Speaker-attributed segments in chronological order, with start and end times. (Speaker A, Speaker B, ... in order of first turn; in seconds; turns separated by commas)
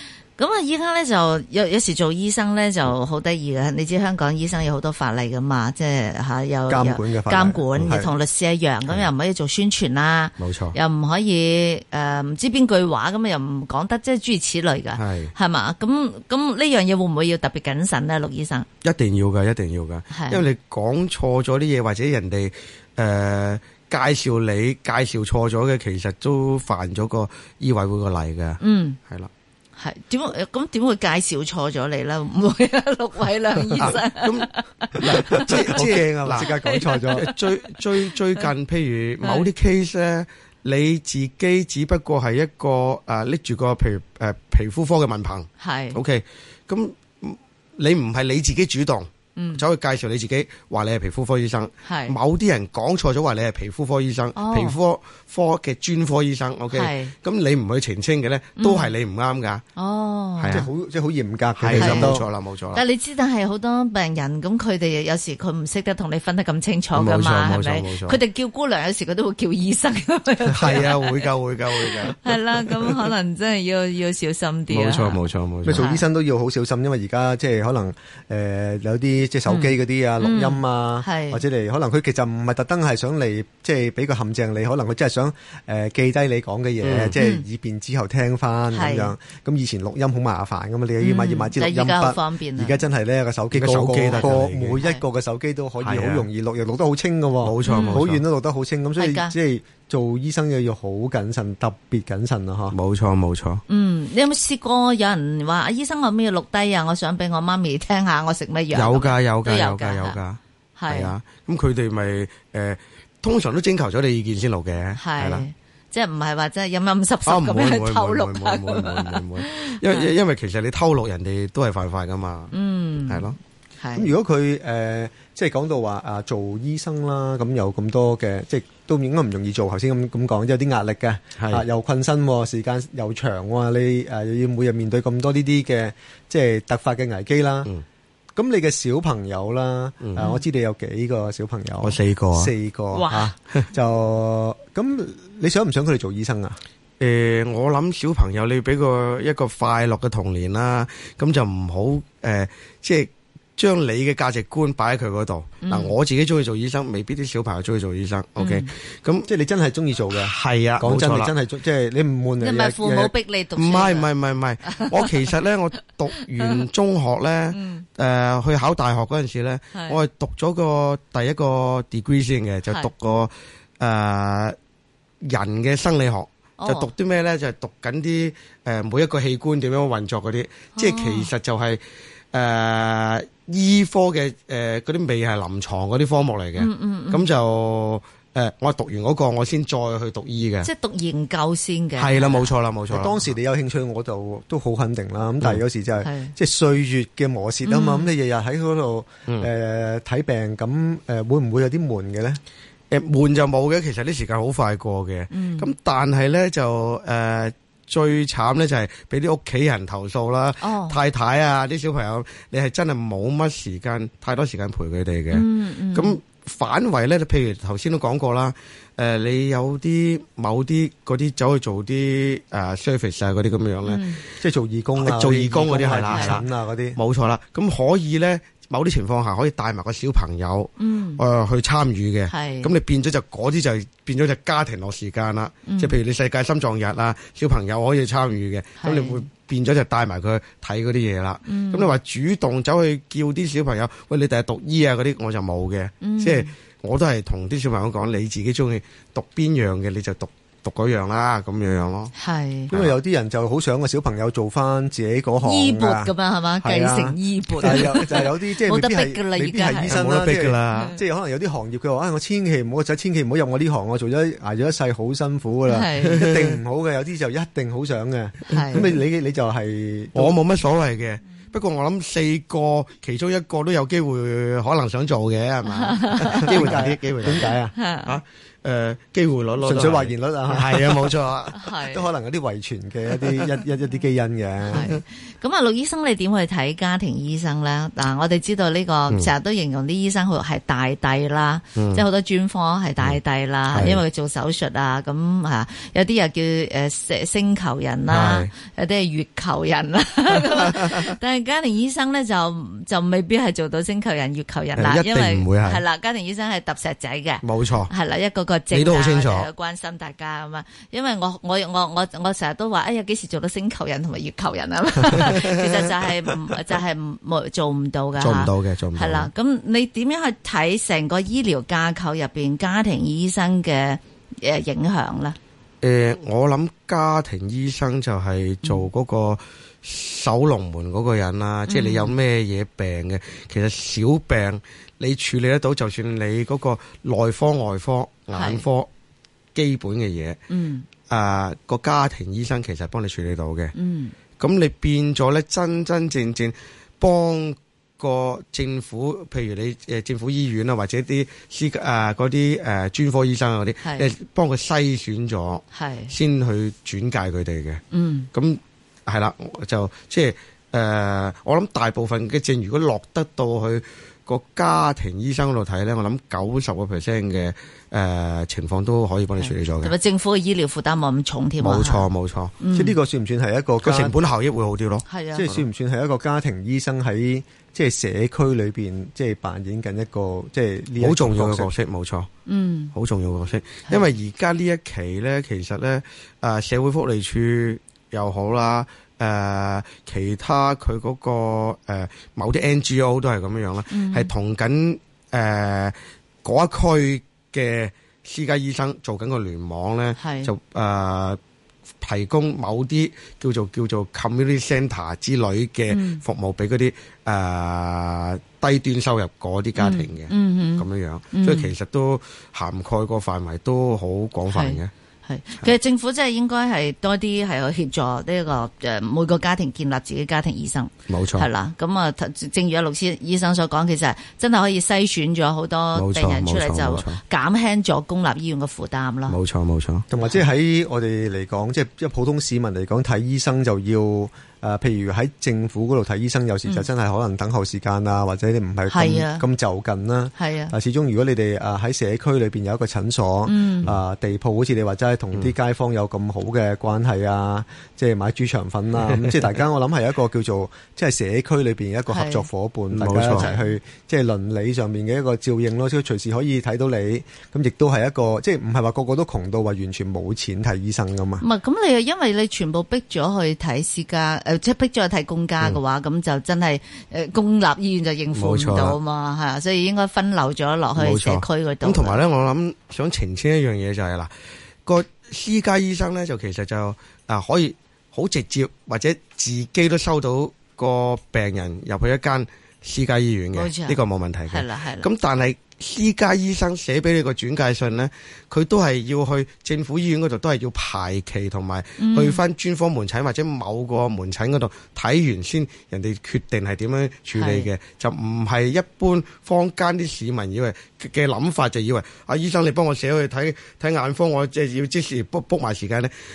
Speaker A: 0.4-18.7, Speaker B: 6.7-8.1, Speaker C: 10.4-10.8, Speaker C: 15.0-15.3, Speaker C: 18.8-29.3, Speaker A: 20.1-20.4, Speaker A: 28.6-29.0, Speaker A: 29.8-35.8, Speaker C: 33.8-59.6, Speaker B: 35.3-37.3, Speaker A: 36.4-37.4, Speaker A: 45.6-46.0, Speaker A: 49.4-49.6, Speaker A: 51.9-52.1, Speaker A: 54.4-54.8, Speaker A: 56.7-57.1, Speaker A: 58.6-58.9, Speaker A: 59.8-60.6, Speaker C: 60.4-60.7, Speaker B: 60.5-62.2, Speaker C: 61.6-62.8, Speaker A: 61.8-62.2, Speaker A: 62.7-75.2, Speaker C: 67.0-68.2, Speaker C: 70.5-72.9, Speaker C: 74.7-75.9, Speaker B: 75.7-102.8, Speaker A: 75.7-76.0, Speaker A: 79.5-81.4, Speaker C: 86.8-87.2, Speaker A: 87.2-87.4, Speaker A: 88.7-89.1, Speaker A: 91.0-92.8, Speaker C: 93.5-94.8, Speaker C: 95.8-96.3, Speaker C: 97.4-98.2, Speaker A: 97.7-98.0, Speaker A: 99.0-99.3, Speaker C: 102.7-103.6, Speaker A: 103.7-110.2, Speaker C: 108.7-115.5, Speaker A: 110.8-111.1, Speaker A: 115.0-120.1, Speaker C: 117.3-122.5, Speaker A: 122.5-124.1, Speaker C: 123.1-123.4, Speaker B: 124.0-137.7, Speaker C: 131.4-131.7, Speaker B: 138.4-146.6, Speaker C: 140.0-140.3, Speaker A: 140.2-140.4, Speaker C: 141.8-142.5, Speaker A: 142.9-143.3, Speaker C: 147.0-159.3, Speaker A: 155.6-155.9, Speaker A: 158.4-158.7, Speaker B: 159.3-163.1, Speaker C: 160.1-161.3, Speaker A: 162.4-164.1, Speaker C: 163.6-174.6, Speaker A: 164.7-165.3, Speaker A: 166.2-166.6, Speaker A: 167.5-167.8, Speaker A: 169.7-170.0, Speaker C: 175.2-181.8, Speaker A: 176.6-176.9, Speaker A: 180.8-181.3, Speaker C: 182.3-190.7, Speaker A: 186.6-187.2, Speaker A: 190.6-192.5, Speaker C: 192.0-193.2, Speaker B: 192.9-202.4, Speaker A: 196.0-196.3, Speaker A: 197.7-198.1, Speaker C: 202.9-224.1, Speaker A: 205.3-205.7, Speaker A: 210.6-211.0, Speaker A: 215.3-216.2, Speaker A: 223.8-224.2, Speaker B: 224.4-227.0, Speaker C: 225.0-252.1, Speaker A: 226.1-226.4, Speaker A: 230.8-231.2, Speaker A: 232.3-232.7, Speaker A: 235.7-236.0, Speaker A: 238.8-239.2, Speaker A: 241.5-241.9, Speaker A: 246.0-246.5, Speaker A: 252.2-252.7, Speaker B: 252.7-270.4, Speaker A: 255.4-260.0, Speaker C: 259.9-260.9, Speaker A: 260.7-261.0, Speaker A: 265.7-266.3, Speaker C: 266.1-266.6, Speaker A: 268.5-268.9, Speaker C: 268.6-268.9, Speaker C: 270.1-281.6, Speaker A: 275.8-276.6, Speaker B: 276.2-277.7, Speaker A: 277.8-278.2, Speaker B: 279.6-281.2, Speaker A: 281.5-282.1, Speaker B: 281.8-284.9, Speaker C: 284.7-285.0, Speaker A: 284.7-325.4, Speaker C: 291.8-292.0, Speaker C: 293.7-294.0, Speaker C: 298.1-298.5, Speaker C: 300.4-301.1, Speaker C: 304.8-305.8, Speaker C: 307.4-307.9, Speaker C: 308.7-309.5, Speaker C: 315.2-315.7, Speaker C: 318.2-319.3, Speaker C: 325.8-338.9, Speaker A: 331.7-332.1, Speaker A: 338.3-338.6, Speaker C: 339.6-340.4, Speaker A: 340.5-340.9, Speaker C: 341.1-343.7, Speaker A: 343.8-344.1, Speaker C: 344.4-357.8, Speaker A: 355.7-356.1, Speaker A: 357.9-358.3, Speaker C: 358.3-369.9, Speaker A: 369.4-372.1, Speaker C: 371.6-372.6, Speaker A: 372.6-372.9, Speaker B: 372.7-374.1, Speaker C: 373.8-375.6, Speaker A: 375.1-375.5, Speaker B: 375.4-381.7, Speaker C: 381.0-382.3, Speaker A: 382.5-382.9, Speaker C: 382.9-401.4, Speaker A: 393.9-394.3, Speaker A: 400.2-400.5, Speaker C: 402.0-414.9, Speaker A: 405.9-406.2, Speaker A: 409.8-411.7, Speaker A: 414.5-429.4, Speaker C: 421.1-421.5, Speaker C: 425.9-427.2, Speaker C: 429.3-430.1, Speaker B: 430.1-461.4, Speaker A: 438.9-439.4, Speaker A: 440.4-440.7, Speaker A: 443.5-443.9, Speaker A: 452.1-452.5, Speaker C: 452.9-453.5, Speaker A: 453.3-453.7, Speaker A: 461.4-472.2, Speaker C: 468.3-469.0, Speaker C: 471.0-474.3, Speaker C: 474.9-506.1, Speaker A: 483.5-485.1, Speaker A: 492.0-492.4, Speaker A: 497.4-497.7